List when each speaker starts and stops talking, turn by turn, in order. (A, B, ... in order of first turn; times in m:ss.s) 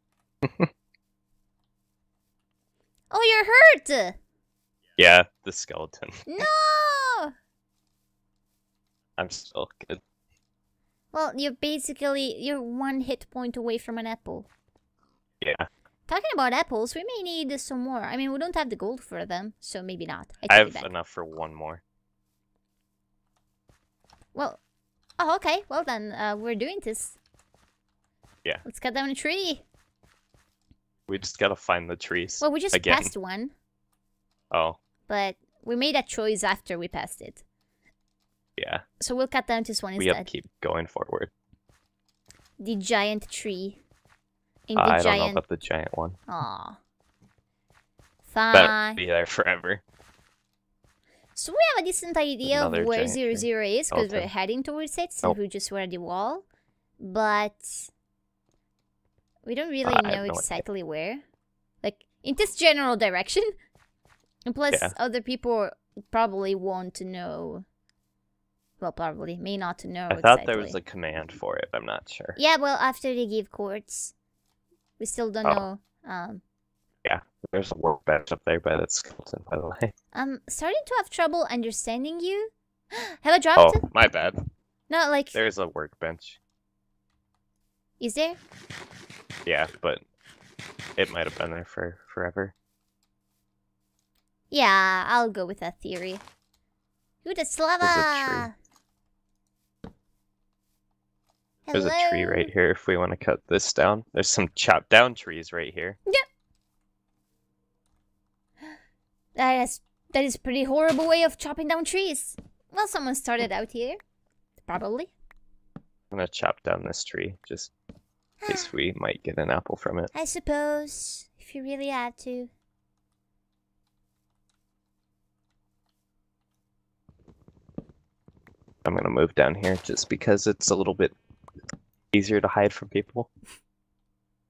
0:03.1-0:04.2 A
0:05.0-0:06.4 B
0:06.3-0:07.3 A
0:09.2-0:10.0 B
0:11.1-0:14.5 A
0:15.4-0:15.7 B
0:16.1-0:20.9 A
0:20.5-0:21.8 B
0:24.3-0:24.6 A
0:25.2-0:27.2 A
0:28.6-0:29.6 A
0:31.1-0:33.1 B
0:32.4-0:33.5 A
0:34.5-0:34.8 B
0:35.1-0:37.4 A
0:38.6-0:38.8 B
0:39.0-0:40.3 A
0:40.0-0:41.3 B
0:42.6-0:43.8 A
0:44.7-0:45.4 A
0:44.8-0:46.2 B
0:46.3-0:46.8 A
0:48.2-0:49.0 A
0:48.5-0:49.8 B
0:51.3-0:56.4 A
0:52.4-0:54.3 B
0:57.0-0:57.9 A
0:59.4-1:01.2 A
0:59.8-1:00.6 B
1:01.8-1:03.5 A
1:04.5-1:07.6 A
1:08.8-1:10.8 A
1:10.1-1:12.4 B
1:12.4-1:14.1 A
1:15.0-1:16.4 A
1:17.0-1:19.9 B
1:20.1-1:23.8 A
1:23.6-1:24.4 B
1:24.9-1:25.4 A
1:25.3-1:26.4 B
1:28.0-1:28.4 A
1:29.4-1:30.0 B
1:31.0-1:32.5 B
1:34.5-1:36.2 A
1:37.2-1:38.5 A
1:37.8-1:38.5 B
1:41.7-1:42.5 A
1:41.7-1:46.0 B
1:49.4-1:54.0 A
1:54.6-1:55.1 A
1:56.1-1:57.7 B
1:58.4-1:58.7 A
1:58.4-2:00.1 B
2:00.1-2:02.5 A
2:08.8-2:11.1 B
2:12.1-2:13.3 B